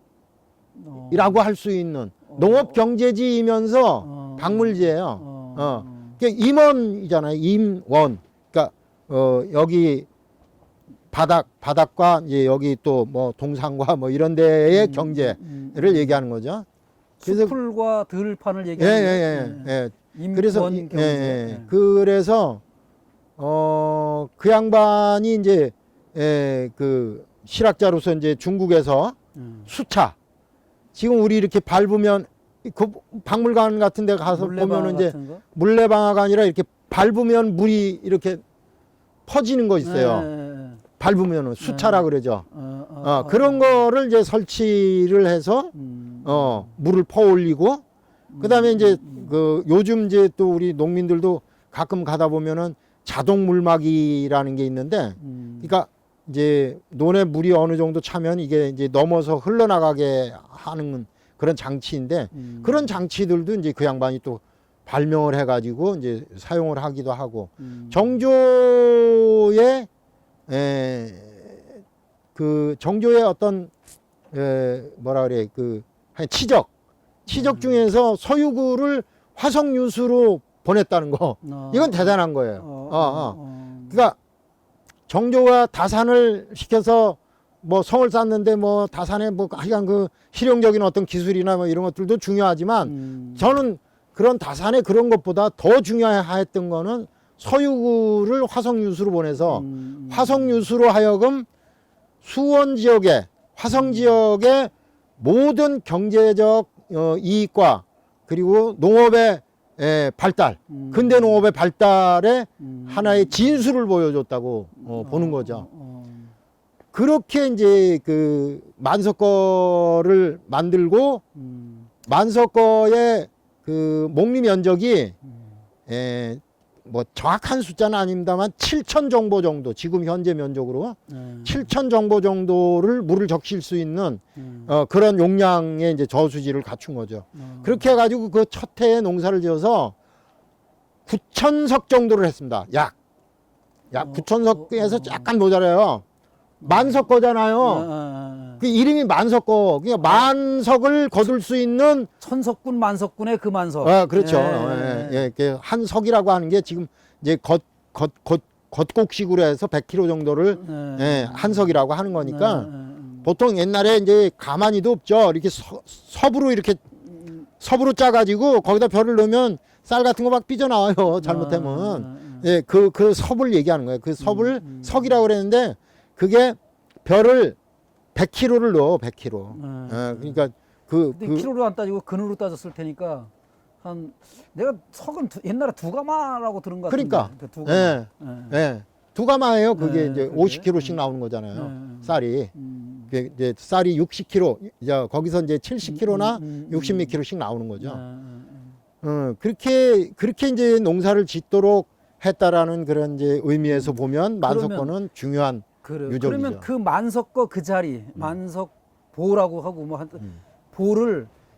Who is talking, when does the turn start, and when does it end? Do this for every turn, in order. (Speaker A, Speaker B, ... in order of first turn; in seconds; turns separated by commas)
Speaker A: 0.8-1.4, Speaker B: 1.1-10.1, Speaker A: 2.2-2.8, Speaker A: 4.0-6.2, Speaker B: 11.1-16.6, Speaker A: 14.7-16.2, Speaker A: 17.2-21.7, Speaker B: 17.2-17.5, Speaker B: 18.8-22.6, Speaker B: 23.4-29.1, Speaker A: 29.3-29.7, Speaker B: 29.7-30.1, Speaker B: 30.9-38.4, Speaker A: 34.2-35.4, Speaker B: 39.3-40.3, Speaker A: 39.8-40.8, Speaker B: 41.0-42.5, Speaker A: 41.6-43.9, Speaker B: 43.0-45.7, Speaker A: 45.7-46.7, Speaker B: 46.2-47.8, Speaker A: 48.3-49.3, Speaker B: 48.4-69.9, Speaker A: 55.2-55.7, Speaker A: 62.3-63.0, Speaker A: 67.6-68.2, Speaker B: 70.5-71.6, Speaker B: 72.3-73.7, Speaker B: 74.3-76.7, Speaker B: 77.3-83.4, Speaker A: 77.3-77.8, Speaker A: 81.4-84.0, Speaker B: 83.9-84.2, Speaker B: 85.1-101.5, Speaker A: 92.8-93.6, Speaker A: 99.5-100.7, Speaker B: 102.2-115.7, Speaker A: 103.7-104.2, Speaker A: 110.7-111.4, Speaker A: 112.6-113.7, Speaker A: 114.8-116.3, Speaker B: 116.9-121.2, Speaker A: 121.3-121.9, Speaker B: 122.0-125.2, Speaker B: 125.9-139.9, Speaker A: 131.1-131.7, Speaker A: 134.4-134.7, Speaker A: 137.3-137.9, Speaker B: 141.1-142.9, Speaker B: 143.9-146.0, Speaker A: 143.9-145.3, Speaker A: 146.6-147.1, Speaker B: 146.6-147.9, Speaker A: 147.6-148.6, Speaker B: 148.6-152.1, Speaker A: 152.2-155.3, Speaker B: 153.8-162.7, Speaker A: 160.5-163.3, Speaker B: 163.2-166.8, Speaker B: 167.6-177.6, Speaker A: 171.2-172.5, Speaker A: 174.2-175.2, Speaker B: 178.1-181.5, Speaker A: 179.5-180.4, Speaker A: 181.1-183.3, Speaker A: 183.8-188.6, Speaker B: 186.9-192.5, Speaker A: 189.7-191.0, Speaker A: 191.5-193.1, Speaker B: 193.1-198.0, Speaker A: 195.8-197.2, Speaker A: 197.8-198.8, Speaker B: 199.0-206.7, Speaker A: 203.6-204.9, Speaker A: 205.8-211.3